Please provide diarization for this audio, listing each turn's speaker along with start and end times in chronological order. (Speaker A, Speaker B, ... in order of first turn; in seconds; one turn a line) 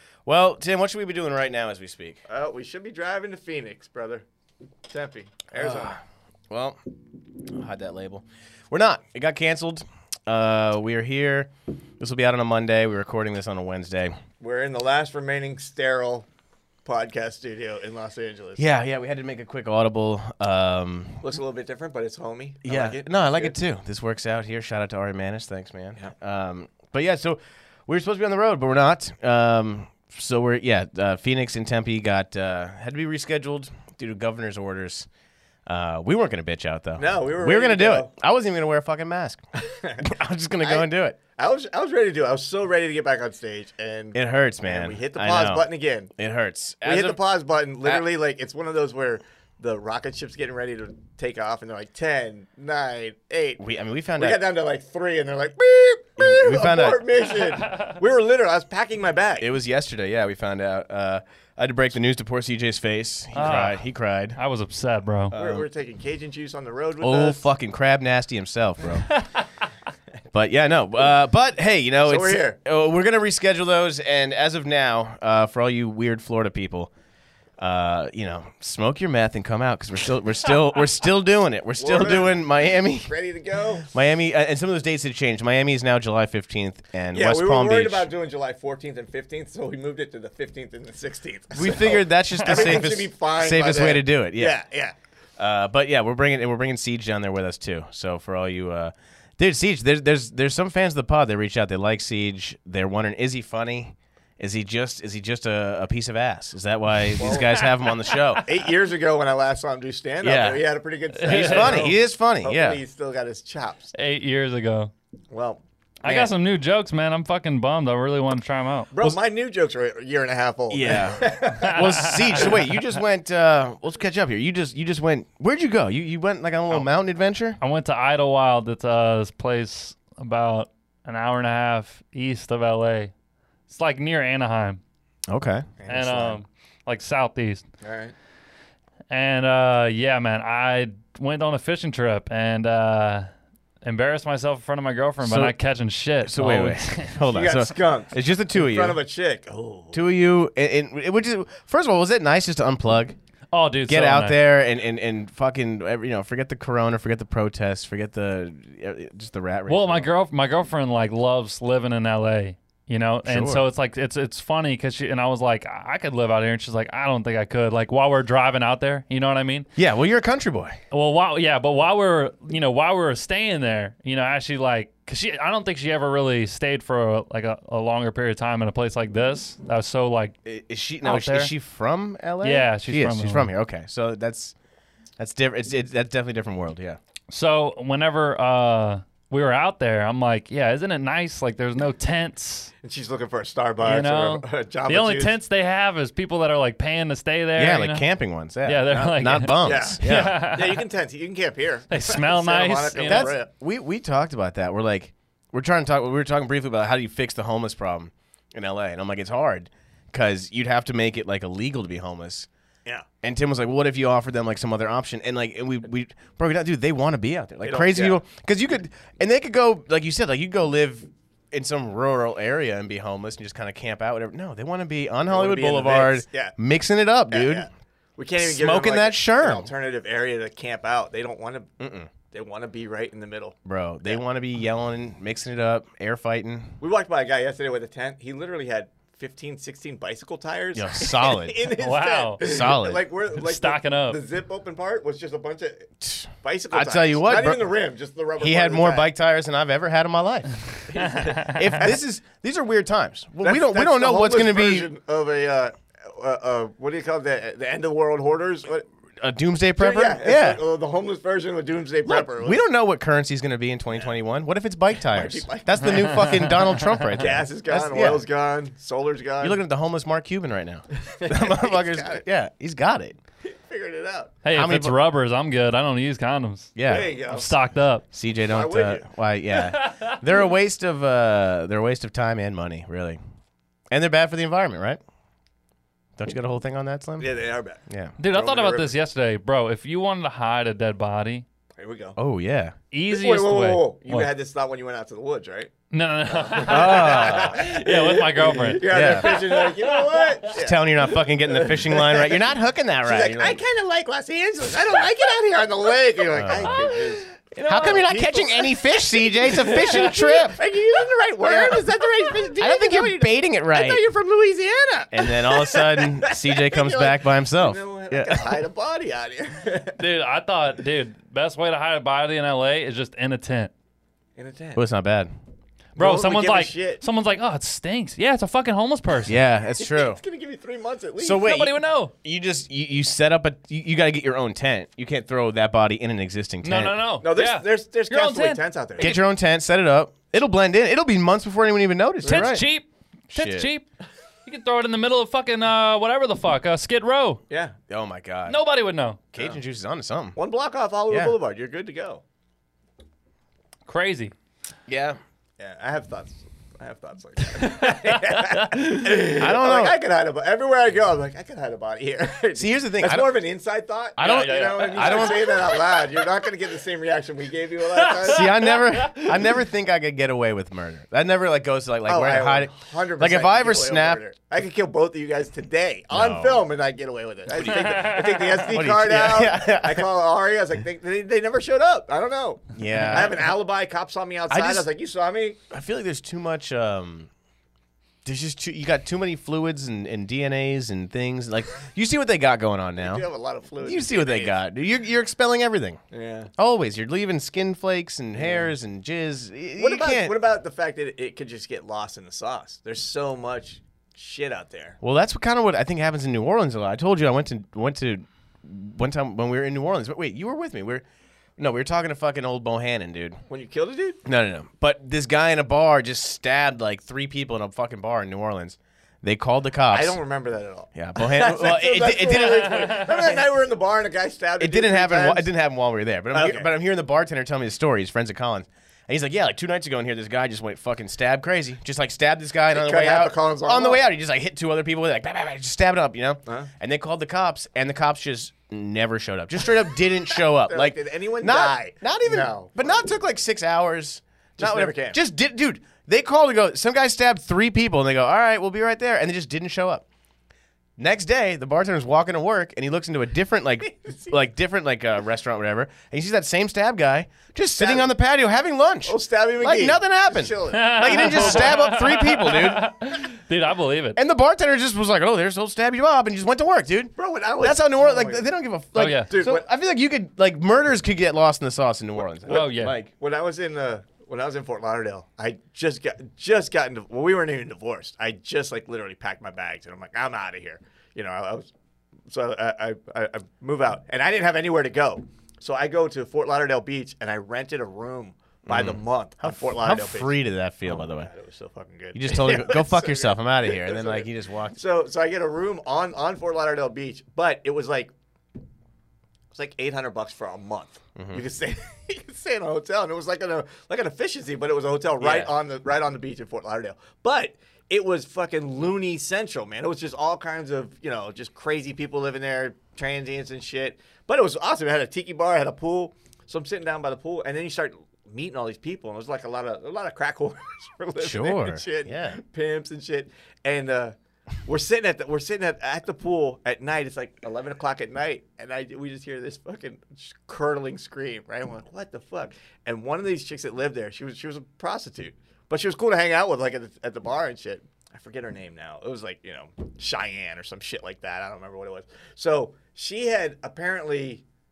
Speaker A: 0.2-2.2
Speaker B: 2.3-4.2
Speaker B: 4.9-6.0
Speaker A: 5.5-6.0
Speaker A: 6.5-6.8
Speaker A: 7.4-14.2
Speaker B: 14.4-16.3
Speaker B: 16.9-18.6
Speaker A: 18.6-21.3
Speaker B: 21.2-23.6
Speaker A: 22.6-35.1
Speaker A: 35.7-39.4
Speaker B: 37.0-38.1
Speaker B: 39.6-40.1
Speaker A: 40.0-41.2
Speaker B: 40.6-46.1
Speaker A: 44.1-47.2
Speaker B: 46.8-53.6
Speaker A: 53.6-54.4
Speaker B: 54.2-59.5
Speaker A: 56.2-57.0
Speaker A: 59.4-64.4
Speaker C: 63.3-65.3
Speaker A: 65.3-65.7
Speaker B: 65.3-67.4
Speaker A: 67.0-69.2
Speaker A: 70.3-76.9
Speaker B: 72.0-72.6
Speaker A: 77.6-83.1
Speaker B: 81.8-83.9
Speaker A: 83.8-88.1
Speaker B: 87.1-95.0
Speaker A: 91.5-94.6
Speaker A: 95.4-108.5
Speaker B: 107.1-107.7
Speaker B: 108.4-113.9
Speaker A: 110.2-110.6
Speaker C: 111.2-111.8
Speaker A: 111.3-112.8
Speaker C: 114.0-114.9
Speaker B: 115.3-116.3
Speaker C: 116.0-118.9
Speaker B: 118.9-122.5
Speaker A: 120.7-127.6
Speaker C: 121.6-122.6
Speaker C: 127.6-133.1
Speaker C: 133.7-134.8
Speaker A: 135.3-135.7
Speaker B: 135.8-136.4
Speaker C: 135.9-137.6
Speaker B: 137.8-138.1
Speaker C: 139.1-143.3
Speaker C: 143.8-147.2
Speaker A: 145.2-145.6
Speaker A: 146.2-149.0
Speaker B: 147.3-150.0
Speaker A: 149.9-153.2
Speaker C: 153.5-154.4
Speaker A: 153.9-160.1
Speaker C: 159.7-169.7
Speaker A: 163.2-163.7
Speaker A: 169.8-170.8
Speaker C: 170.9-180.4
Speaker A: 180.5-184.5
Speaker C: 181.0-181.5
Speaker C: 182.4-183.5
Speaker A: 185.2-187.0
Speaker C: 187.3-192.7
Speaker B: 192.8-195.4
Speaker C: 193.8-198.1
Speaker A: 197.6-200.4
Speaker C: 198.7-200.8
Speaker B: 199.6-203.5
Speaker C: 201.9-203.3
Speaker A: 203.0-212.5
Speaker A: 213.2-227.7
Speaker B: 217.6-218.2
Speaker B: 225.3-226.5
Speaker B: 227.3-231.7
Speaker A: 228.4-229.7
Speaker A: 231.8-232.1
Speaker B: 232.3-234.2
Speaker A: 233.7-236.8
Speaker B: 236.8-249.1
Speaker A: 240.8-241.7
Speaker C: 241.7-242.4
Speaker A: 242.4-243.0
Speaker C: 243.3-244.2
Speaker A: 246.0-247.7
Speaker A: 248.4-250.6
Speaker B: 250.9-252.0
Speaker C: 251.0-251.8
Speaker A: 251.1-254.9
Speaker B: 253.4-258.9
Speaker A: 259.2-260.6
Speaker B: 259.8-262.6
Speaker A: 262.1-268.2
Speaker B: 265.0-266.3
Speaker C: 266.0-267.1
Speaker B: 267.2-269.6
Speaker A: 269.4-273.2
Speaker B: 270.9-272.2
Speaker B: 273.4-274.4
Speaker C: 274.4-276.8
Speaker A: 274.5-274.9
Speaker A: 276.8-277.1
Speaker B: 276.9-277.5
Speaker C: 277.3-278.0
Speaker A: 278.1-283.2
Speaker B: 278.5-279.1
Speaker C: 279.5-280.2
Speaker A: 283.9-285.0
Speaker A: 286.2-287.3
Speaker B: 287.2-289.0
Speaker A: 287.9-288.2
Speaker C: 288.2-291.4
Speaker B: 291.8-292.2
Speaker A: 292.2-292.8
Speaker C: 292.9-294.3
Speaker B: 293.1-295.7
Speaker C: 295.9-300.4
Speaker B: 296.3-302.5
Speaker A: 296.6-297.6
Speaker A: 298.9-299.4
Speaker A: 300.5-303.6
Speaker B: 303.0-320.0
Speaker A: 306.4-306.9
Speaker C: 306.6-307.1
Speaker A: 307.5-310.6
Speaker A: 311.4-314.0
Speaker A: 315.1-318.6
Speaker C: 320.0-323.7
Speaker B: 324.4-324.8
Speaker A: 324.8-325.3
Speaker B: 326.0-327.0
Speaker C: 326.0-329.4
Speaker A: 329.3-330.2
Speaker B: 329.8-331.5
Speaker A: 331.2-336.9
Speaker C: 331.4-332.1
Speaker C: 336.6-339.2
Speaker B: 337.2-339.1
Speaker A: 339.0-342.7
Speaker B: 342.2-342.6
Speaker C: 342.2-343.9
Speaker A: 343.3-343.7
Speaker C: 344.4-347.4
Speaker B: 347.5-347.8
Speaker A: 347.9-348.6
Speaker C: 348.5-349.2
Speaker A: 349.3-350.4
Speaker B: 350.4-352.2
Speaker A: 351.1-351.4
Speaker C: 353.9-354.3
Speaker A: 354.9-355.2
Speaker B: 355.6-369.3
Speaker C: 357.5-358.9
Speaker A: 359.3-360.0
Speaker A: 362.6-363.3
Speaker C: 364.2-366.0
Speaker A: 364.2-365.6
Speaker C: 367.9-369.1
Speaker A: 368.2-374.2
Speaker B: 372.1-385.6
Speaker A: 376.1-376.6
Speaker C: 377.6-378.6
Speaker A: 377.7-378.1
Speaker A: 378.7-380.1
Speaker A: 382.8-383.4
Speaker A: 384.5-384.9
Speaker A: 385.7-387.3
Speaker A: 388.2-393.2
Speaker B: 393.0-394.6
Speaker A: 393.8-396.0
Speaker B: 396.1-396.5
Speaker A: 396.6-400.4
Speaker B: 398.4-398.7
Speaker B: 399.8-405.0
Speaker A: 405.0-411.0
Speaker A: 411.6-413.4
Speaker B: 413.5-414.2
Speaker A: 414.2-420.2
Speaker B: 419.9-425.5
Speaker A: 420.9-423.1
Speaker C: 422.7-423.4
Speaker A: 424.6-450.1
Speaker B: 426.3-426.7
Speaker B: 432.7-434.0
Speaker B: 440.6-443.0
Speaker B: 444.6-445.2
Speaker A: 451.0-462.9
Speaker B: 454.0-454.3
Speaker B: 457.8-458.1
Speaker B: 459.1-461.8
Speaker C: 460.7-464.2
Speaker A: 464.2-473.1
Speaker B: 467.2-468.5
Speaker C: 468.9-469.3
Speaker B: 469.3-469.6
Speaker C: 472.5-472.9
Speaker B: 472.5-481.7
Speaker B: 482.3-490.4
Speaker A: 488.7-491.3
Speaker B: 490.9-498.1
Speaker A: 492.1-494.8
Speaker B: 499.5-544.4
Speaker A: 501.2-501.4
Speaker A: 505.2-505.5
Speaker A: 521.2-522.4